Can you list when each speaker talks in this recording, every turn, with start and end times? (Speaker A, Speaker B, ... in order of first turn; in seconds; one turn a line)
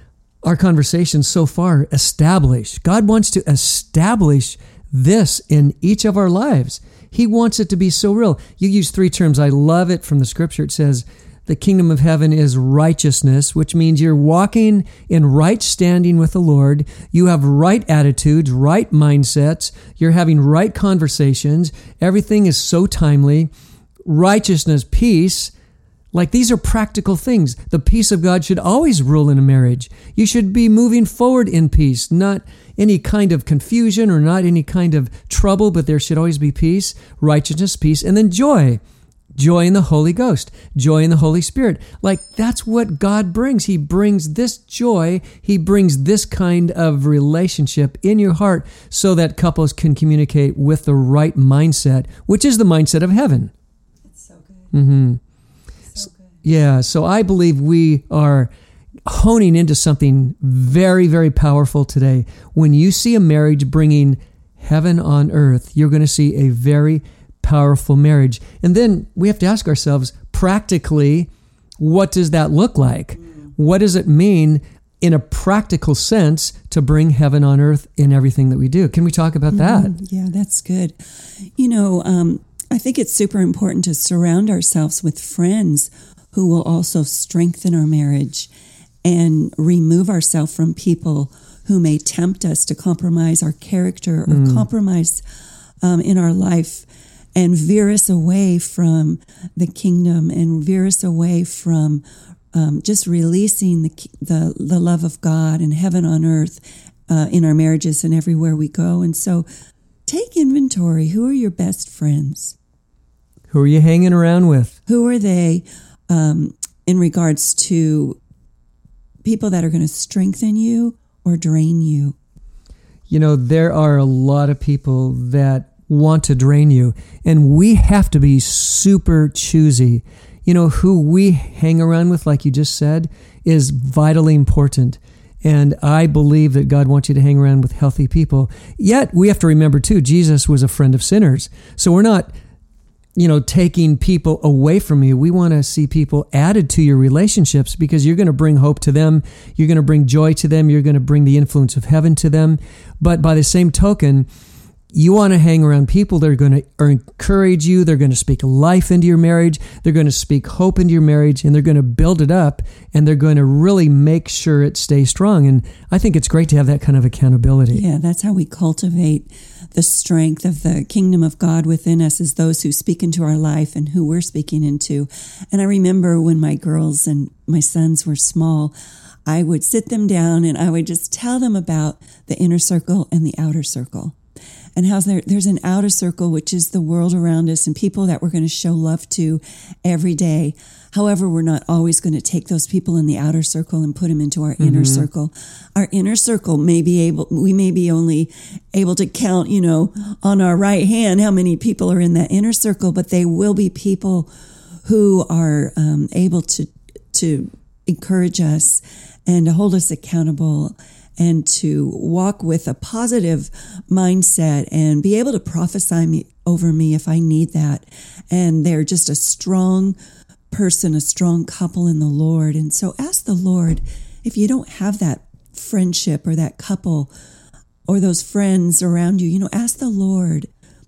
Speaker A: 0.4-23.5
Speaker A: 24.1-25.5
Speaker A: 26.1-38.8
Speaker A: 39.4-53.5
Speaker A: 54.7-55.2
Speaker A: 56.4-58.5
Speaker A: 59.0-80.0
Speaker B: 79.5-81.0
Speaker B: 81.6-88.5
Speaker B: 89.0-95.2
Speaker A: 94.3-94.6
Speaker B: 95.8-109.5
Speaker B: 110.1-112.6
Speaker A: 113.5-114.8
Speaker B: 114.9-118.2
Speaker B: 119.2-122.2
Speaker A: 123.1-142.3
Speaker A: 143.2-154.3
Speaker A: 154.9-167.8
Speaker B: 167.7-178.7
Speaker B: 179.2-184.2
Speaker B: 184.8-204.3
Speaker A: 194.6-195.1
Speaker B: 204.8-220.0
Speaker B: 220.5-227.1
Speaker B: 227.9-230.5